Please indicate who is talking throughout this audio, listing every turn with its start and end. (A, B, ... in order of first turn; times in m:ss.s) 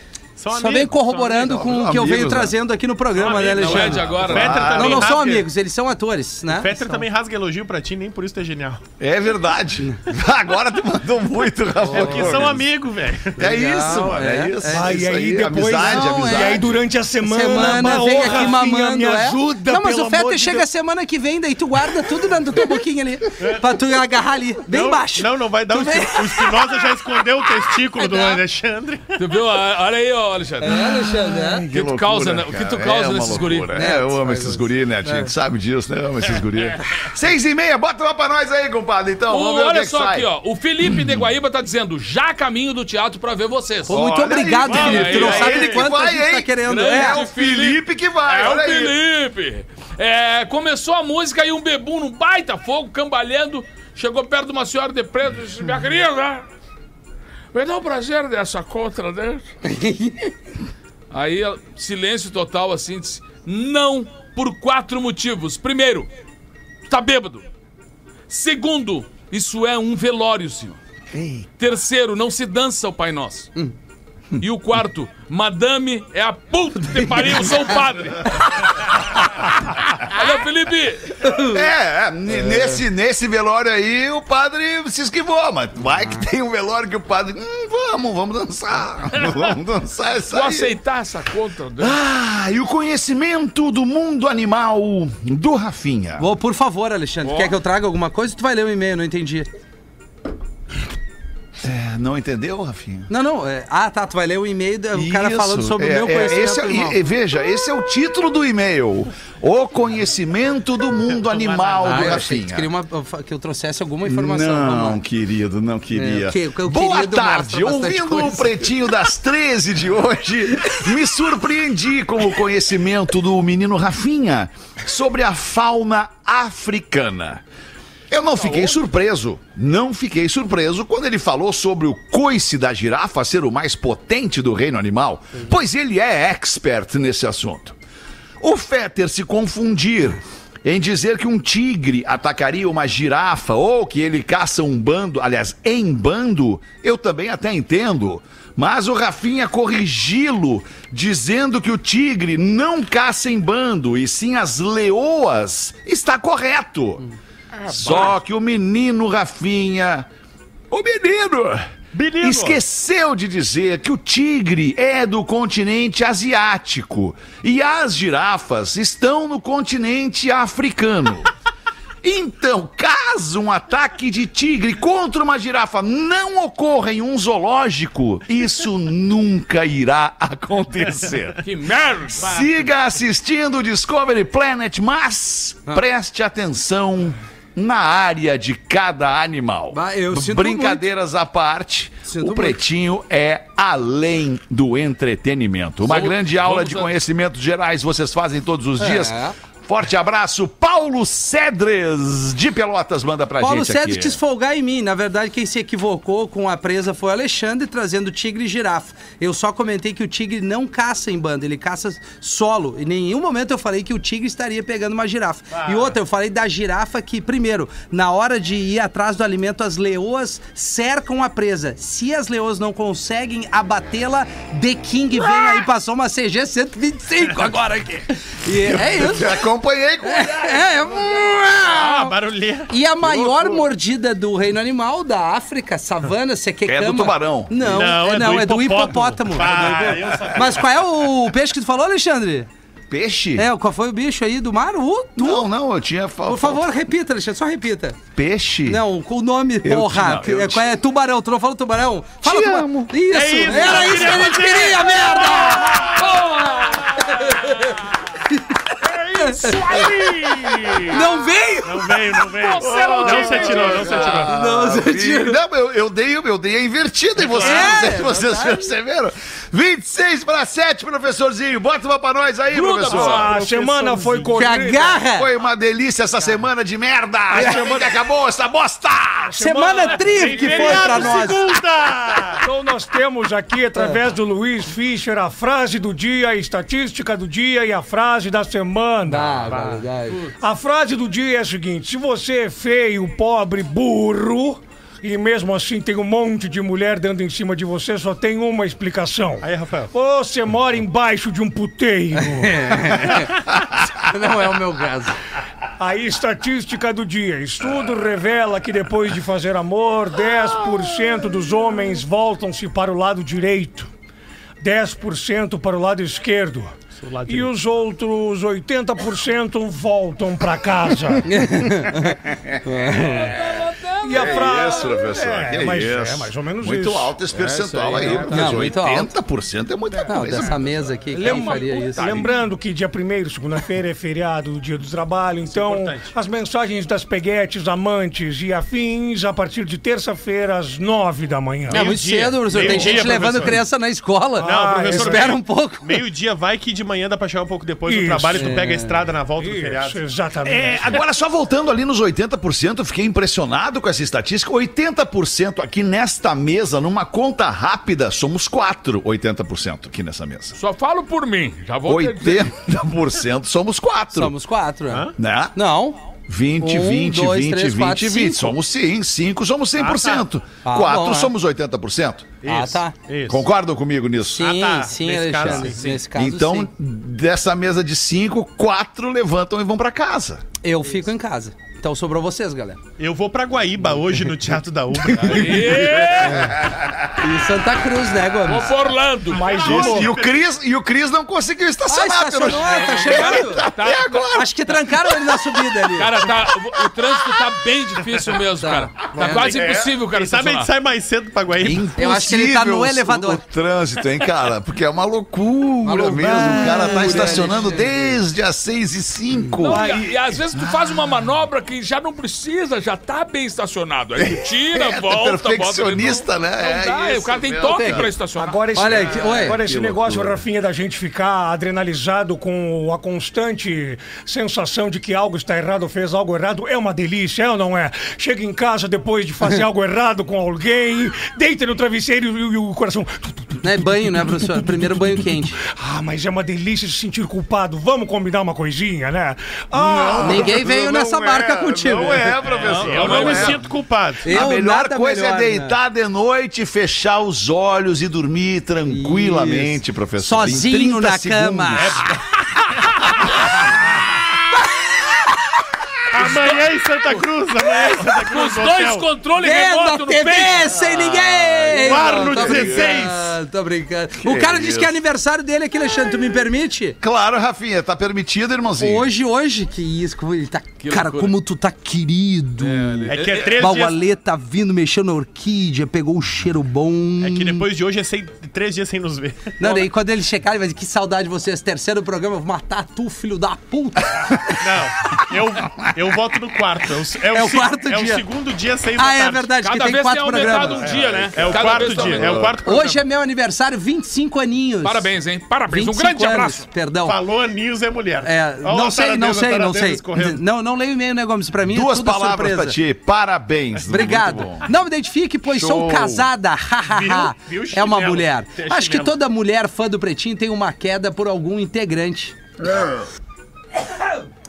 0:00.4-0:01.7 A
0:00.5-0:07.0 B
0:01.5-0:02.5 C
0:03.1-0:05.5 A
0:03.3-0:04.8 D
0:04.1-0:05.1 C
0:06.5-0:08.8 A
0:09.0-0:12.7 C
0:11.8-0:12.5 B
0:11.9-0:13.5 A
0:13.4-0:16.8 C
0:13.4-0:14.9 B
0:14.7-0:20.7 E
0:15.8-0:16.6 B
0:17.2-0:26.5 B
0:17.6-0:18.5 A
0:23.4-0:23.7 A
0:24.7-0:29.2 A
0:27.9-0:28.4 B
0:29.2-0:30.8 D
0:30.6-0:31.7 B
0:30.9-0:31.6 E
0:31.7-0:40.3 C
0:31.7-0:33.8 D
0:33.8-0:35.3 B
0:39.3-0:44.0 D
0:40.8-0:41.2 C
0:43.9-0:47.2 B
0:43.9-0:49.0 C
0:44.7-0:45.8 A
0:44.7-0:45.6 D
0:46.6-0:56.4 D
0:57.5-0:59.4 D
0:59.6-1:00.3 B
1:01.1-1:06.1 D
1:06.9-1:07.4 D
1:08.3-1:10.8 D
1:11.1-1:11.4 C
1:11.6-1:13.5 D
1:14.4-1:21.2 D
1:21.2-1:21.6 B
1:21.4-1:30.7 C
1:29.1-1:29.5 D
1:30.3-1:32.0 D
1:31.8-1:36.2 C
1:36.2-1:39.5 B
1:37.2-1:37.5 D
1:41.6-1:43.1 C
1:43.1-1:47.0 B
1:44.9-1:52.7 C
1:51.3-1:52.1 D
1:51.8-1:55.0 B
1:54.0-2:07.4 C
1:55.9-1:58.8 B
2:08.1-2:17.8 C
2:18.4-2:37.0 C
2:37.6-2:40.1 C
2:37.6-2:38.1 D
2:40.7-2:51.3 C
2:41.9-2:42.6 A
2:52.0-3:01.4 C
3:01.4-3:02.4 D
3:02.2-3:24.2 C
3:09.7-3:10.8 B
3:12.0-3:12.6 B
3:15.8-3:16.9 D
3:18.8-3:19.3 B
3:23.4-3:49.3 B
3:35.5-3:36.0 A
3:48.5-3:50.7 C
3:50.0-3:52.1 B
3:51.7-3:52.7 A
3:52.7-4:02.5 B
3:53.0-3:53.6 C
3:56.6-3:57.9 C
3:57.6-4:00.7 A
3:59.6-4:00.0 C
4:02.9-4:03.5 C
4:03.4-4:05.5 B
4:05.2-4:06.8 C
4:06.2-4:08.0 B
4:08.1-4:08.8 C
4:08.7-4:16.1 B
4:09.6-4:10.7 C
4:12.2-4:14.2 C
4:13.1-4:15.9 A
4:15.4-4:18.0 D
4:17.0-4:17.7 B
4:18.2-4:18.6 B
4:18.8-4:20.9 D
4:19.1-4:19.8 B
4:20.9-4:22.0 B
4:21.6-4:24.3 A
4:22.3-4:24.2 D
4:22.6-4:33.3 C
4:24.3-4:25.4 B
4:27.2-4:27.7 A
4:27.3-4:28.7 B
4:32.5-4:33.5 D
4:32.8-4:35.0 E
4:33.2-4:34.4 A
4:34.3-4:35.3 B
4:35.1-4:39.3 C
4:37.3-4:37.9 E
4:37.3-4:37.7 B
4:39.2-4:41.4 E
4:39.4-4:41.4 B
4:40.0-4:42.4 A
4:42.4-4:49.5 E
4:49.0-4:50.2 B
4:49.5-4:49.8 A
4:50.4-5:03.2 E
4:59.4-4:59.9 A
5:02.2-5:05.2 B
5:05.8-5:13.9 E
5:14.6-5:16.7 E
5:16.9-5:17.5 A
5:17.2-5:21.3 E
5:21.3-5:23.3 B
5:22.0-5:22.6 C
5:22.9-5:25.0 D
5:24.0-5:27.2 E
5:24.1-5:30.9 C
5:27.4-5:28.5 D
5:27.7-5:28.6 E
5:28.3-5:29.1 B
5:30.1-5:32.2 B
5:31.1-5:41.9 E
5:31.2-5:32.4 D
5:35.5-5:36.1 A
5:41.7-5:43.6 A
5:41.7-5:46.0 B
5:42.6-5:43.2 E
5:44.4-5:45.4 E
5:44.4-5:50.0 A
5:47.8-5:48.6 E
5:48.3-5:49.0 B
5:49.4-5:51.0 E
5:50.4-6:00.5 C
6:00.6-6:02.5 D
6:01.8-6:04.3 C
6:04.1-6:06.0 B
6:04.9-6:05.2 A
6:05.2-6:05.6 C
6:06.3-6:12.3 C
6:06.6-6:08.5 B
6:09.8-6:10.2 A
6:10.6-6:11.3 B
6:12.4-6:13.4 A
6:12.4-6:12.9 B
6:13.3-6:14.6 C
6:14.3-6:16.7 B
6:14.4-6:16.0 A
6:15.4-6:20.4 C
6:20.6-6:22.8 B
6:23.0-6:26.3 A
6:25.1-6:26.5 D
6:25.6-6:27.0 C
6:27.2-6:28.7 B
6:28.4-6:29.5 D
6:29.3-6:30.4 A
6:29.3-6:30.1 E
6:29.6-6:35.6 C
6:31.9-6:33.6 B
6:32.7-6:34.3 D
6:34.3-6:36.1 B
6:35.9-6:40.7 D
6:38.6-6:39.6 B
6:39.1-6:41.9 A
6:41.6-6:51.1 C
6:42.0-6:43.4 B
6:45.8-6:47.9 B
6:46.2-6:47.4 E
6:49.6-6:58.8 D
6:49.6-6:50.0 E
6:54.2-6:58.1 C
6:57.7-6:58.0 B
6:58.3-7:20.7 E
6:58.7-6:59.6 B
6:59.1-7:00.4 C
7:13.6-7:15.6 B
7:19.7-7:23.6 C
7:20.2-7:22.4 B
7:22.4-7:24.4 A
7:22.6-7:23.6 D
7:24.2-7:25.8 B
7:24.2-7:32.1 C
7:28.9-7:31.9 B
7:31.7-7:32.2 A
7:36.1-7:39.0 A
7:36.2-7:37.2 D
7:37.8-7:41.5 D
7:39.4-7:47.0 B
7:40.9-7:43.0 C
7:41.7-7:43.4 A
7:44.2-7:45.0 C
7:47.0-7:49.1 C
7:48.8-7:57.6 B
7:50.8-7:51.3 D
7:52.6-7:53.8 D
7:53.1-7:54.0 A
7:57.2-7:59.9 A
7:59.6-8:04.6 B
8:04.6-8:09.5 A
8:07.3-8:08.2 B
8:09.0-8:11.0 B
8:09.6-8:12.4 D
8:10.8-8:13.0 A
8:11.4-8:12.6 C
8:12.6-8:15.1 B
8:14.8-8:16.6 D
8:15.7-8:17.2 B
8:17.0-8:20.4 A
8:18.2-8:22.8 B
8:21.7-8:24.7 C
8:23.9-8:32.3 B
8:25.5-8:26.3 C
8:26.9-8:29.2 A
8:32.6-8:33.1 C